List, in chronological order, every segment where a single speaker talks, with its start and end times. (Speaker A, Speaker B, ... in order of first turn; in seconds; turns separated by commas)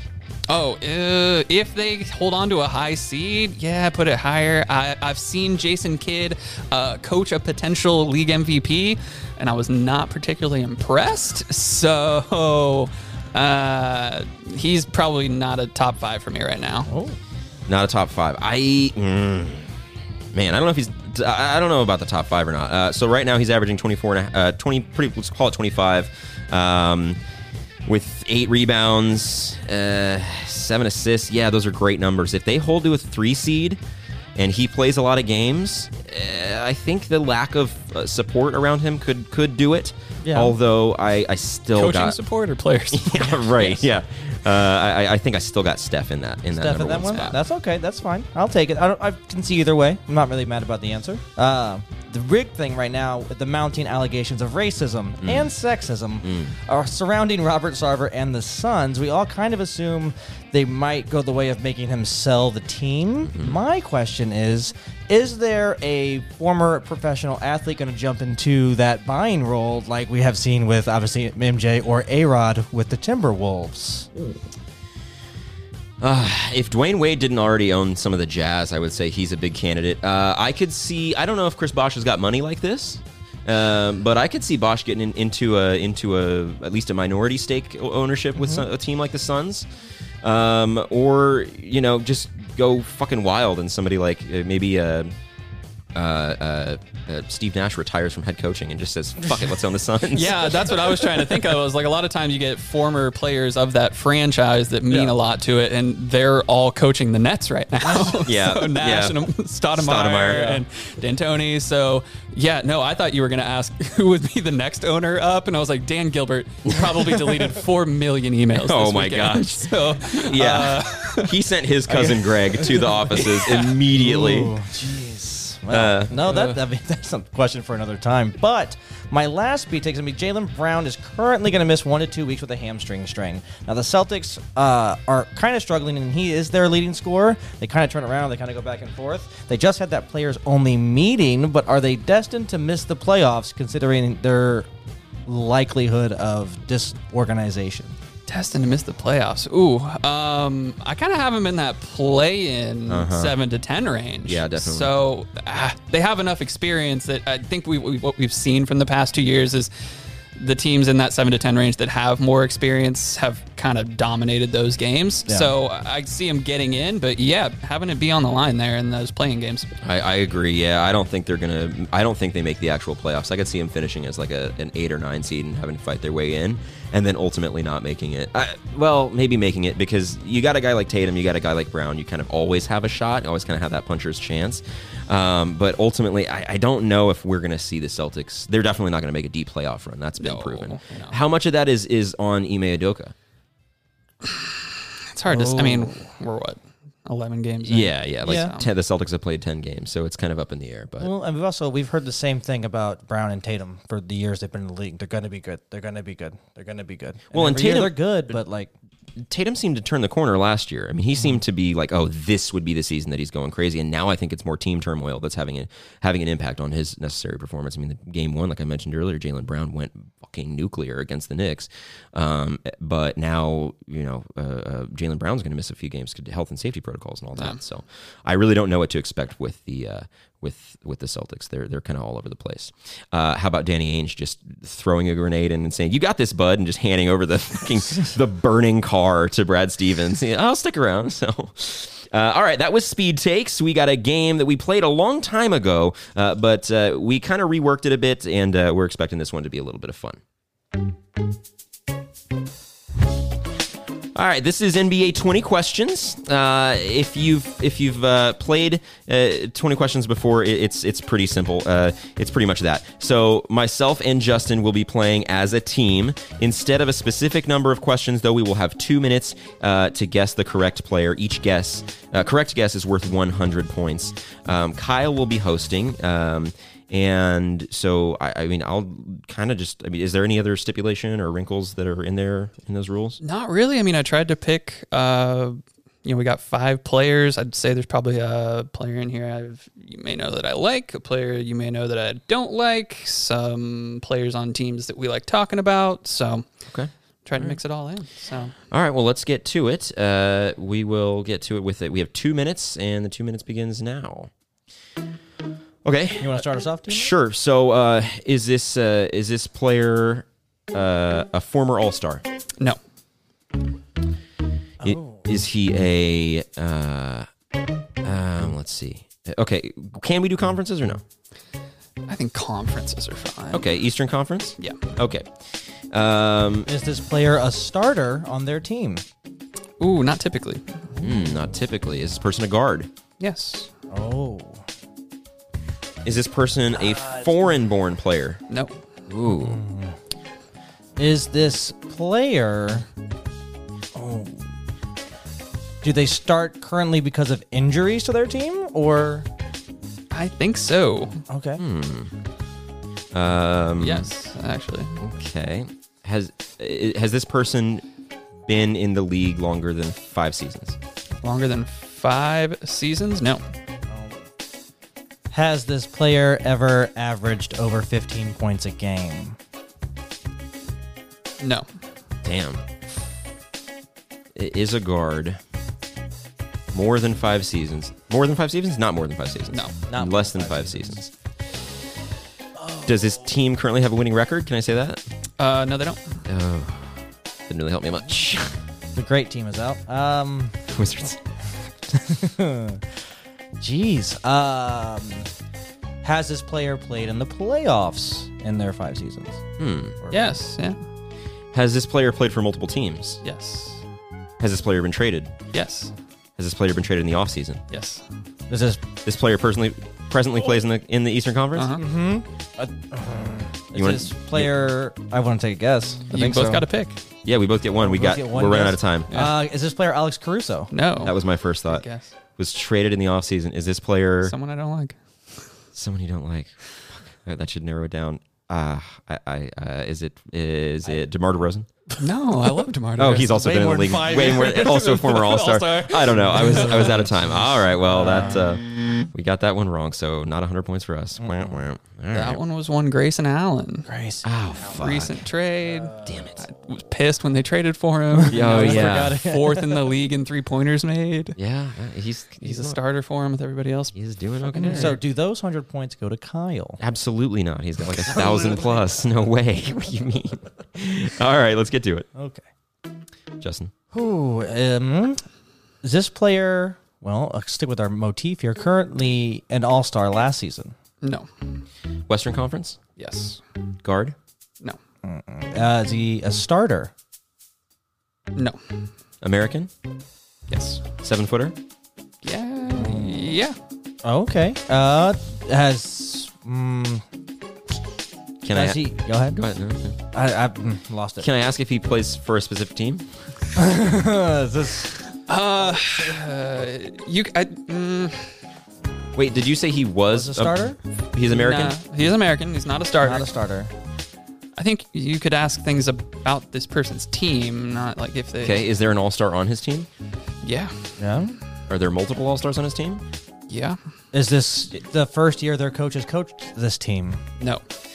Speaker A: 0.5-16.9, Speaker B: 16.9-17.2, Speaker C: 17.7-19.7, Speaker C: 20.3-27.2, Speaker C: 27.9-33.8, Speaker C: 34.4-42.2, Speaker B: 40.2-40.5, Speaker A: 41.7-43.8, Speaker C: 42.9-47.4, Speaker B: 46.5-74.1, Speaker A: 47.1-47.3, Speaker C: 55.2-55.5, Speaker C: 56.2-56.5, Speaker C: 63.2-63.6, Speaker C: 76.0-89.7, Speaker C: 90.2-95.1, Speaker C: 95.9-100.7, Speaker A: 100.1-121.3, Speaker B: 107.8-108.2, Speaker C: 108.1-110.5, Speaker B: 110.2-110.6, Speaker C: 118.5-124.5, Speaker B: 121.9-123.2, Speaker A: 123.2-123.7, Speaker B: 123.9-144.7, Speaker C: 125.7-126.4, Speaker B: 145.2-147.9, Speaker A: 148.3-159.7, Speaker C: 152.9-153.3, Speaker C: 154.2-154.9, Speaker A: 160.3-169.7, Speaker B: 165.3-165.5, Speaker C: 169.8-193.1, Speaker A: 190.2-191.2, Speaker A: 195.1-198.7, Speaker B: 195.3-196.0, Speaker C: 197.6-201.1, Speaker B: 198.2-198.5, Speaker B: 201.0-208.7, Speaker C: 207.3-208.0, Speaker C: 209.2-250.2, Speaker C: 254.1-283.2, Speaker A: 283.2-296.4, Speaker C: 296.7-297.6, Speaker A: 297.2-298.5, Speaker C: 298.7-304.3, Speaker C: 305.8-312.2, Speaker B: 306.2-307.1, Speaker B: 314.8-315.2, Speaker C: 314.8-317.3, Speaker C: 318.0-321.0, Speaker A: 322.1-323.6, Speaker C: 323.5-325.3, Speaker C: 325.9-326.7, Speaker B: 326.6-329.0, Speaker A: 329.8-330.6, Speaker C: 331.0-332.9, Speaker A: 333.2-333.7, Speaker B: 333.9-334.6, Speaker C: 336.0-338.4, Speaker A: 338.5-338.8, Speaker C: 339.1-339.6, Speaker B: 339.3-339.9, Speaker B: 341.0-342.9, Speaker B: 343.9-344.5, Speaker B: 345.8-349.3, Speaker A: 350.1-351.2, Speaker B: 351.3-351.6, Speaker C: 351.6-352.1, Speaker C: 353.1-354.1, Speaker A: 353.8-355.0, Speaker C: 355.0-357.8, Speaker C: 358.4-360.8, Speaker A: 361.2-363.4, Speaker B: 363.9-364.2, Speaker B: 365.3-369.4, Speaker A: 371.4-371.7, Speaker C: 372.2-372.6, Speaker C: 374.4-375.4, Speaker C: 376.7-381.1, Speaker B: 379.9-381.1, Speaker C: 382.9-385.0, Speaker A: 385.4-386.2, Speaker C: 386.2-386.9, Speaker C: 387.5-388.6, Speaker B: 388.9-390.6, Speaker C: 390.7-391.2, Speaker B: 391.9-392.9, Speaker B: 393.6-395.3, Speaker B: 396.0-399.4, Speaker C: 399.6-400.0, Speaker A: 400.1-400.8, Speaker C: 401.5-403.2, Speaker A: 403.2-403.8, Speaker C: 404.4-405.3, Speaker A: 405.5-405.9, Speaker C: 406.4-407.6, Speaker A: 407.7-408.0, Speaker B: 408.5-408.8, Speaker C: 409.0-411.8, Speaker A: 411.5-411.8, Speaker B: 411.8-416.6, Speaker C: 413.7-414.5, Speaker A: 416.1-417.0, Speaker C: 417.2-419.1, Speaker B: 417.8-420.7, Speaker A: 419.1-419.3, Speaker A: 420.7-422.1, Speaker C: 421.0-421.9, Speaker C: 422.4-424.4, Speaker A: 424.2-425.0, Speaker C: 425.7-431.7, Speaker A: 432.0-433.4, Speaker C: 433.0-442.4, Speaker B: 433.3-437.0, Speaker A: 435.2-437.0, Speaker B: 437.9-438.4, Speaker B: 441.2-441.6, Speaker A: 442.1-443.9, Speaker B: 443.9-444.3, Speaker C: 444.2-445.2, Speaker A: 444.7-451.4, Speaker C: 446.0-446.4, Speaker B: 448.1-449.8, Speaker C: 448.3-449.2, Speaker C: 451.4-452.8, Speaker A: 452.4-455.0, Speaker C: 453.9-455.0, Speaker B: 454.7-456.8, Speaker C: 456.8-462.1, Speaker B: 458.2-458.6, Speaker B: 462.1-462.4, Speaker C: 463.4-463.7, Speaker B: 463.9-465.2, Speaker B: 465.8-470.7, Speaker A: 471.0-471.3, Speaker C: 472.1-472.8, Speaker A: 473.0-473.4, Speaker C: 473.8-474.1, Speaker B: 475.0-476.9, Speaker A: 478.3-478.6, Speaker C: 479.2-479.7, Speaker A: 480.5-480.8, Speaker C: 481.0-481.6, Speaker A: 482.2-483.6, Speaker B: 482.7-483.3, Speaker B: 484.0-487.0, Speaker C: 488.4-490.0, Speaker B: 488.5-489.4, Speaker B: 490.1-491.3, Speaker C: 491.2-493.0, Speaker B: 493.5-495.0, Speaker A: 495.3-498.4, Speaker B: 495.6-496.2, Speaker C: 499.1-500.6, Speaker B: 500.1-500.8, Speaker C: 501.1-501.8, Speaker A: 501.2-503.3, Speaker B: 503.0-503.7, Speaker A: 504.6-508.6, Speaker C: 508.4-509.9, Speaker A: 510.4-511.0, Speaker B: 511.0-511.4, Speaker C: 511.7-513.0, Speaker A: 513.5-513.8, Speaker B: 514.1-517.2, Speaker A: 517.4-517.6